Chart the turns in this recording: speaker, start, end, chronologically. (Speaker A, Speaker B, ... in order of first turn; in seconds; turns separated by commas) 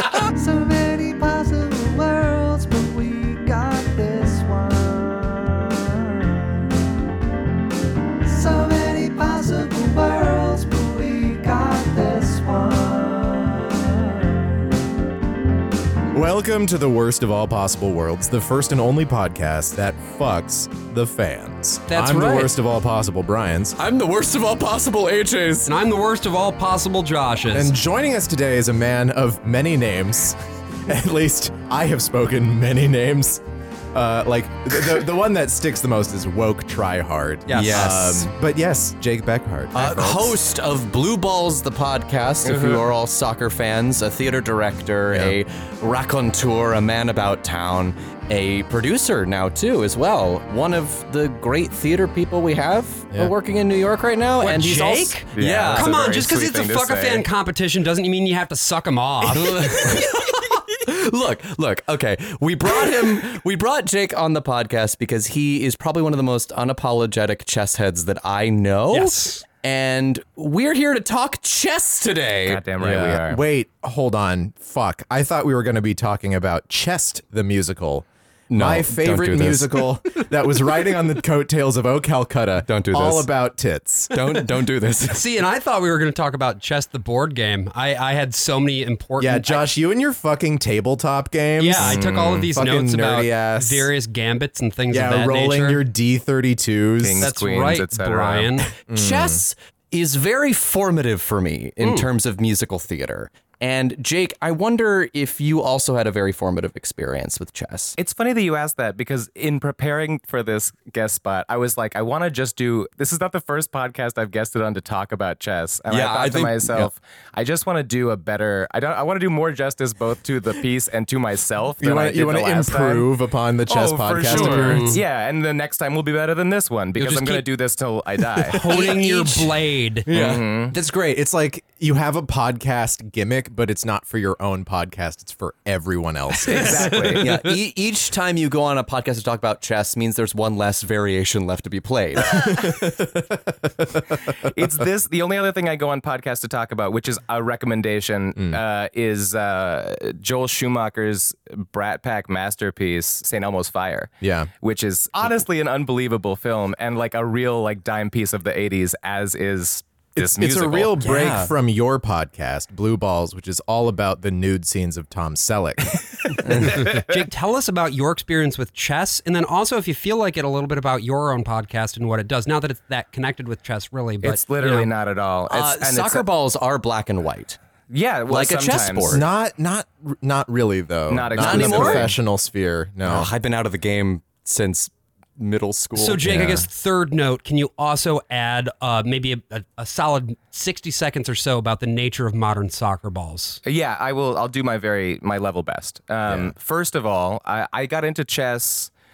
Speaker A: 0.2-6.4, Speaker A: 8.2-13.8, Speaker B: 16.1-23.8, Speaker C: 21.9-22.5, Speaker D: 23.8-25.7, Speaker C: 25.7-27.7, Speaker B: 27.5-40.4, Speaker D: 37.5-38.3, Speaker D: 39.7-55.9, Speaker E: 42.4-42.9, Speaker B: 45.1-45.4, Speaker C: 54.4-60.4, Speaker E: 55.4-57.2, Speaker D: 59.3-72.7, Speaker C: 68.9-69.4, Speaker E: 72.5-73.4, Speaker B: 72.8-84.1, Speaker D: 78.5-79.9, Speaker D: 82.7-83.3, Speaker D: 84.1-85.2, Speaker C: 85.1-89.7, Speaker B: 89.2-93.9, Speaker C: 91.6-95.8, Speaker E: 91.8-92.5, Speaker B: 94.9-97.3, Speaker E: 97.0-98.6, Speaker C: 97.2-98.7, Speaker D: 98.8-108.0, Speaker B: 98.9-99.4, Speaker C: 101.8-102.1, Speaker E: 108.0-123.1, Speaker D: 115.9-116.8, Speaker B: 121.8-125.0, Speaker E: 123.7-128.6, Speaker D: 124.3-124.8, Speaker C: 124.3-125.0, Speaker C: 127.0-127.5, Speaker C: 128.5-130.1, Speaker D: 128.6-129.6, Speaker D: 130.1-130.5, Speaker E: 130.1-130.8, Speaker B: 130.7-137.0, Speaker C: 136.4-137.3, Speaker E: 136.5-137.3, Speaker D: 137.1-142.5, Speaker B: 142.2-144.7, Speaker E: 144.4-161.0, Speaker B: 154.2-154.5, Speaker B: 160.2-166.9, Speaker D: 161.0-161.5, Speaker C: 166.6-174.9, Speaker E: 174.2-176.2, Speaker D: 175.5-177.6, Speaker E: 177.9-179.2, Speaker D: 178.3-179.2, Speaker B: 179.1-183.3, Speaker E: 181.1-182.1, Speaker D: 181.3-182.1, Speaker D: 183.0-186.2, Speaker C: 186.0-193.6, Speaker B: 186.2-186.7, Speaker E: 193.7-198.9, Speaker B: 196.3-196.5